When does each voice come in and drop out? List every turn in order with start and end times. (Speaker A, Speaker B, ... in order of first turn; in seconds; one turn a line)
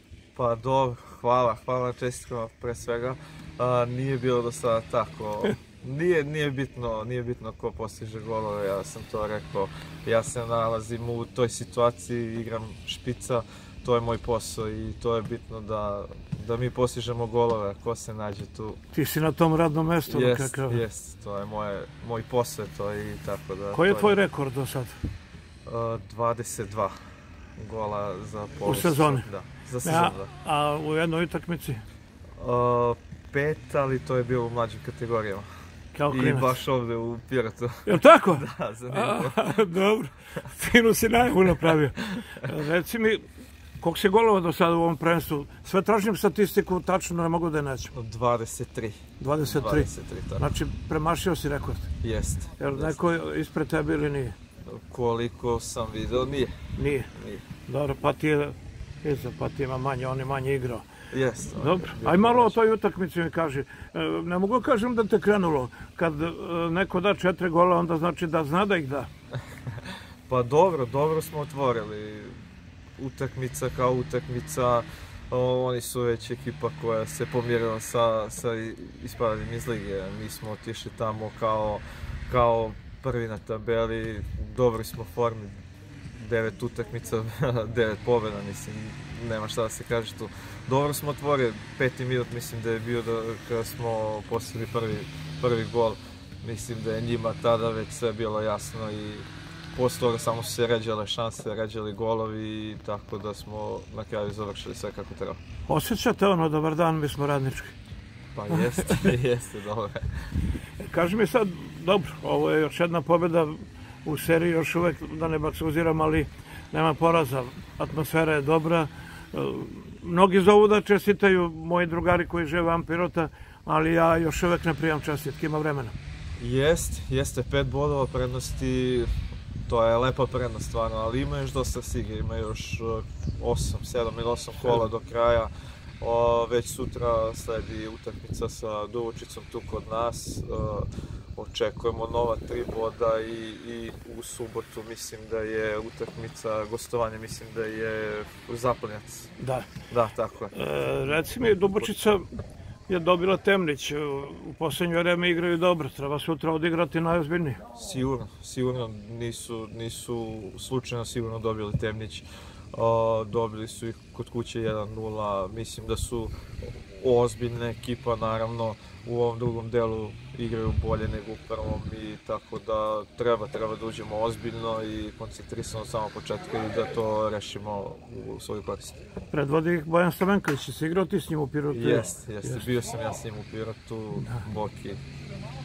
Speaker A: 0.3-18.8
Speaker B: 18.9-20.8
Speaker A: 20.1-24.2
Speaker B: 23.7-25.0
Speaker A: 25.7-27.0
Speaker A: 27.6-30.3
Speaker B: 28.6-29.2
Speaker B: 29.8-31.8
Speaker A: 32.4-35.5
Speaker B: 35.9-36.5
Speaker A: 36.1-39.5
Speaker B: 37.9-43.2
Speaker B: 43.8-47.9
Speaker A: 47.9-50.5
Speaker B: 49.2-51.9
Speaker A: 52.0-53.0
Speaker B: 52.6-54.4
Speaker A: 54.6-56.5
Speaker B: 56.8-57.1
Speaker A: 57.1-57.5
Speaker B: 57.7-60.9
Speaker A: 61.1-62.6
Speaker B: 61.5-69.1
Speaker A: 69.7-72.3
Speaker A: 73.0-105.4
Speaker B: 105.7-107.8
Speaker A: 108.3-110.3
Speaker B: 110.8-126.0
Speaker A: 126.4-129.1
Speaker A: 129.7-135.5
Speaker A: 136.0-149.3
Speaker B: 149.4-149.7
Speaker A: 149.9-150.5
Speaker B: 150.5-152.3
Speaker B: 152.9-157.6
Speaker A: 157.7-179.0
Speaker B: 179.3-182.6
Speaker A: 181.7-185.0
Speaker B: 184.2-184.4